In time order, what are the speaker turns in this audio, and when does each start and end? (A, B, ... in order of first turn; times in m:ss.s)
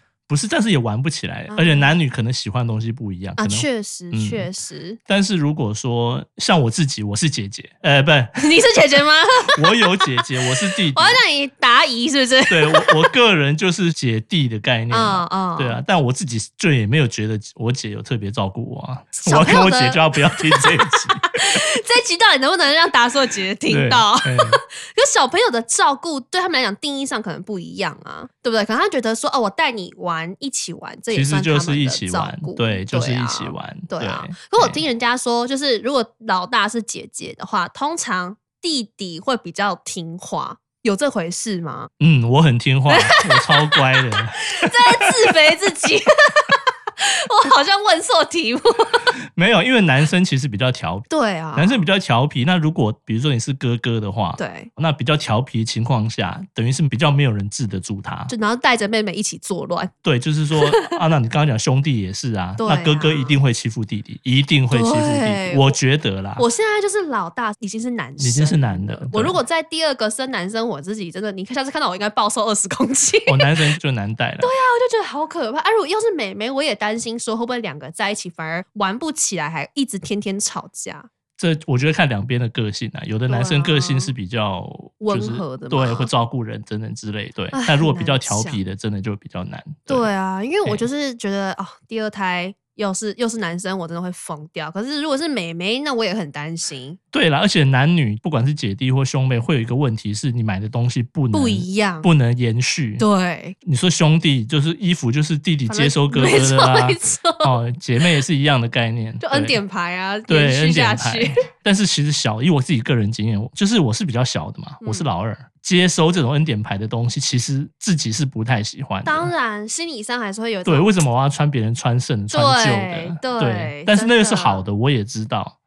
0:00.3-0:04.5 A
0:01.5-0:01.9 B
0:03.4-0:05.0 B
0:05.1-0:08.4 A
0:08.4-0:10.2 B
0:09.5-0:11.2 A
0:10.9-0:13.1 B
0:12.5-0:21.2 A
0:14.9-0:15.8 B
0:19.2-0:41.9 B
0:23.7-0:24.6 A
0:31.1-0:34.8 A
0:42.0-0:45.1 A
0:42.9-0:49.1 B
0:49.2-0:58.3 A
0:51.1-0:51.8 B
0:54.4-0:54.7 B
0:58.3-0:59.9 B
1:00.0-1:06.4 A
1:00.6-1:00.8 B
1:02.6-1:03.4 B
1:04.7-1:05.8 B
1:06.4-1:13.5 B
1:08.2-1:09.4 A
1:13.2-1:14.5 A
1:14.4-1:21.1 B
1:21.4-1:30.1 A
1:23.3-1:24.1 B
1:25.0-1:26.1 B
1:27.5-1:28.6 B
1:29.9-1:37.0 B
1:37.1-1:43.0 A
1:41.3-1:42.1 B
1:43.0-1:43.6 B
1:43.6-1:49.6 A
1:45.7-1:48.0 B
1:49.2-1:51.4 B
1:50.3-1:59.3 A
1:54.8-1:55.1 B
1:59.0-2:00.9 B
2:00.6-2:05.5 A
2:02.3-2:04.6 B